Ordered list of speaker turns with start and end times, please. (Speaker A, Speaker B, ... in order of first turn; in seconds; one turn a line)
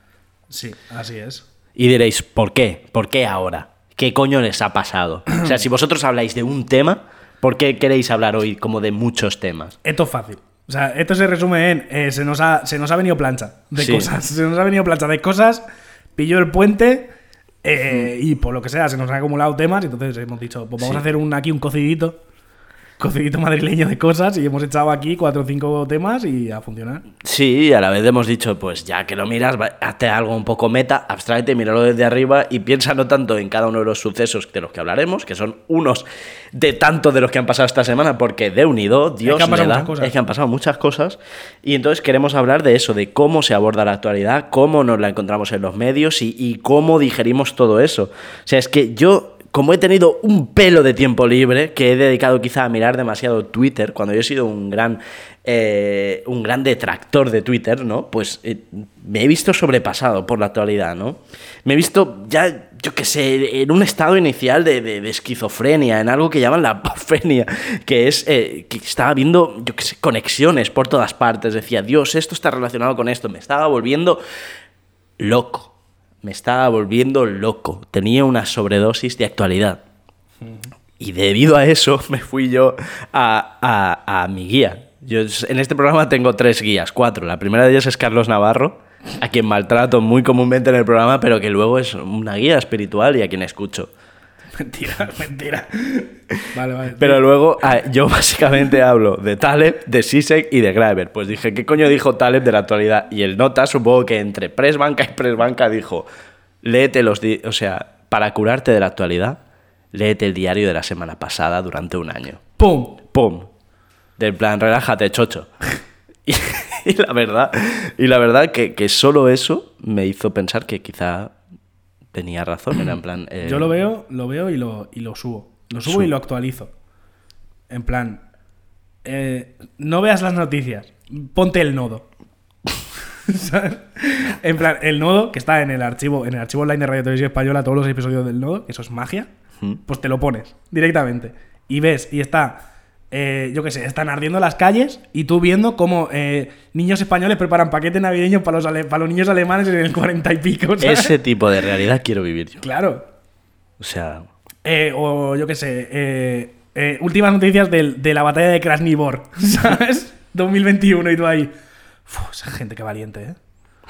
Speaker A: 0.5-1.4
Speaker B: 1.8-9.8
Speaker A: 9.8-15.6
Speaker B: 13.8-14.1
Speaker A: 16.2-17.1
Speaker A: 17.6-22.2
Speaker B: 20.8-21.0
Speaker A: 23.0-27.1
Speaker B: 27.2-74.2
Speaker A: 39.2-40.1
Speaker B: 75.2-75.7
Speaker B: 76.2-79.8
Speaker A: 80.4-80.7
Speaker B: 81.0-93.9
Speaker A: 94.5-97.3
Speaker B: 97.0-106.1
Speaker B: 106.6-109.4
Speaker B: 109.9-112.4
Speaker A: 112.6-113.0
Speaker B: 113.0-113.5
Speaker B: 114.2-115.5
Speaker B: 116.3-121.3
Speaker B: 122.1-123.7
Speaker A: 123.4-126.7
Speaker A: 127.7-128.2
Speaker A: 129.0-132.1
Speaker A: 133.3-139.3
Speaker A: 139.9-151.2
Speaker B: 150.8-152.6
Speaker A: 152.6-153.1
Speaker B: 153.8-154.3
Speaker A: 154.6-161.5
Speaker A: 162.1-163.4